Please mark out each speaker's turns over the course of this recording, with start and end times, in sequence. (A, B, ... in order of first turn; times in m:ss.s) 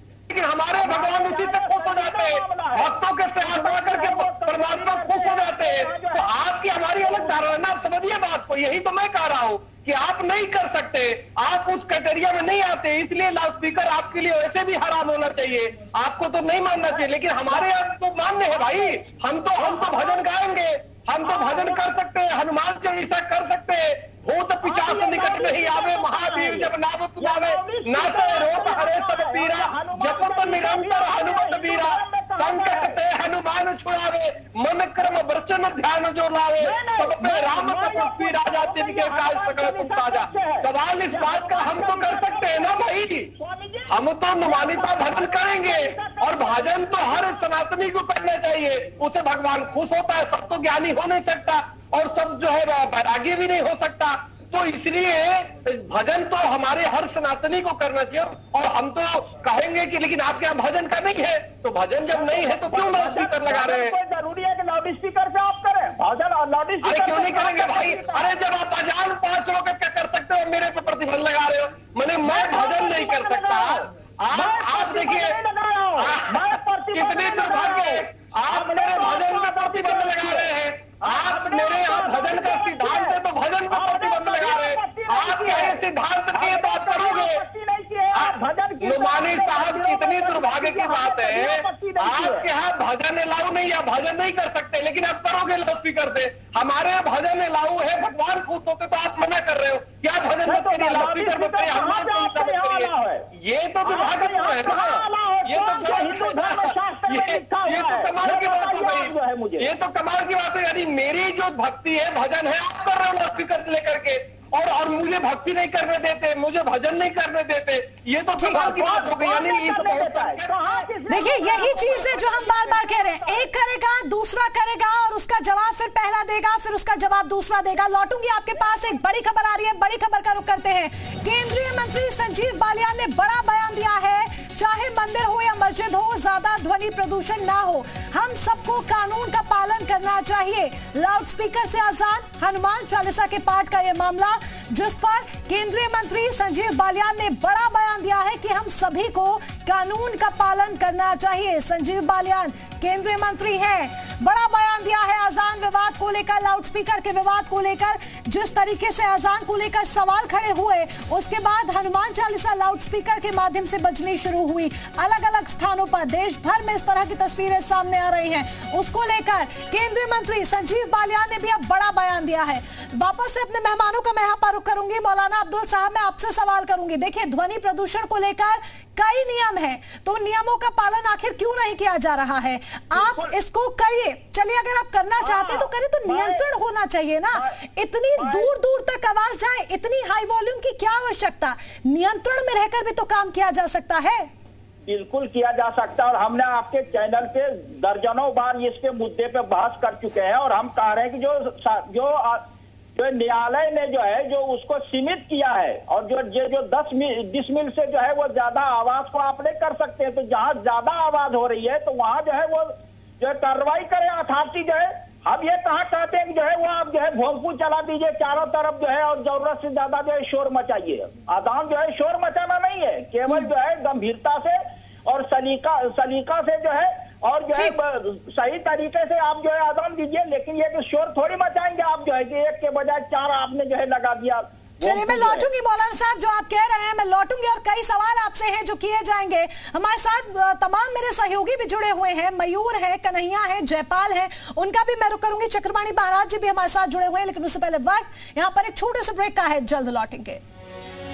0:00.3-0:43.3 A
0:00.8-0:06.3 B
0:06.8-0:07.4 B
0:16.9-0:17.7 B
0:18.5-0:18.9 B
0:19.6-0:20.2 B
0:21.2-0:21.8 B
0:24.6-0:33.0 B
0:36.6-0:47.2 B
0:43.9-1:04.0 A
1:02.1-1:08.3 B
1:06.8-1:15.4 A
1:12.2-1:20.5 B
1:16.0-1:27.4 A
1:21.0-1:23.2 B
1:23.7-1:25.8 B
1:26.3-1:32.5 B
1:28.1-2:00.8 A
1:40.4-1:43.2 B
1:43.8-1:49.7 B
1:58.4-1:58.7 C
1:58.5-2:03.5 B
2:01.1-3:14.3 C
3:03.0-3:03.3 B
3:05.2-3:06.4 B
3:08.2-3:08.5 B
3:14.9-3:22.4 B
3:23.0-3:55.5 B
3:54.8-4:10.4 C